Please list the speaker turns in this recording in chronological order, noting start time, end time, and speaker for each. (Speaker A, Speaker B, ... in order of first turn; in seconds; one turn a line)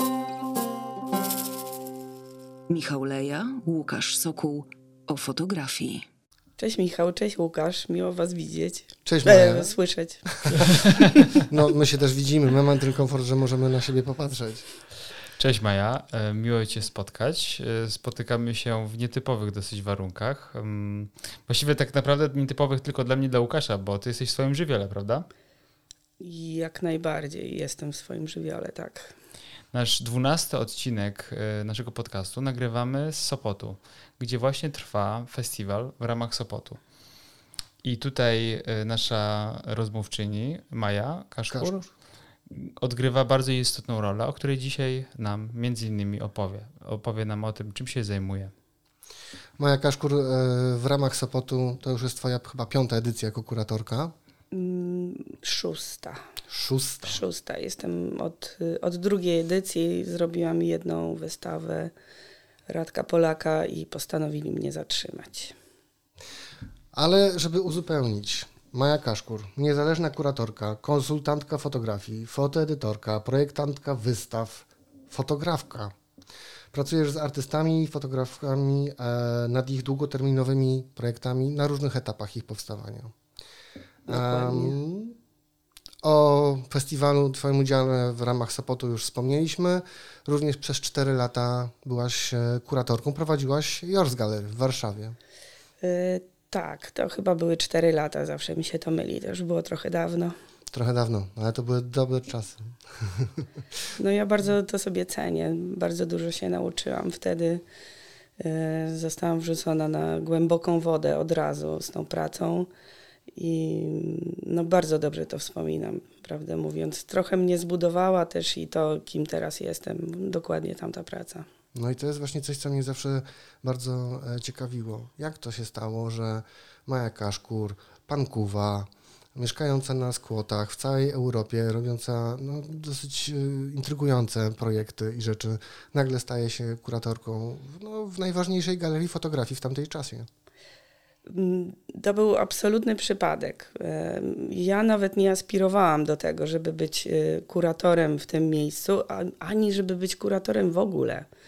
Speaker A: 2.7-6.0
Speaker B: 6.6-10.2
Speaker C: 9.0-9.7
Speaker C: 10.2-10.7
Speaker C: 11.3-14.7
Speaker D: 15.4-25.3
Speaker B: 26.2-29.1
Speaker D: 29.7-36.8
Speaker D: 37.8-41.8
Speaker C: 41.5-41.9
Speaker D: 42.5-48.5
Speaker C: 49.6-54.1
Speaker B: 54.5-56.2
Speaker C: 56.5-57.2
Speaker B: 57.0-61.9
Speaker B: 62.7-65.5
Speaker C: 66.9-75.9
Speaker C: 76.7-83.1
Speaker C: 84.1-85.1
Speaker B: 84.1-84.8
Speaker C: 86.0-95.2
Speaker B: 95.8-100.3
Speaker C: 100.7-103.5
Speaker B: 104.0-107.6
Speaker B: 108.4-112.7
Speaker B: 113.3-121.5
Speaker C: 121.7-140.3
Speaker B: 141.3-151.3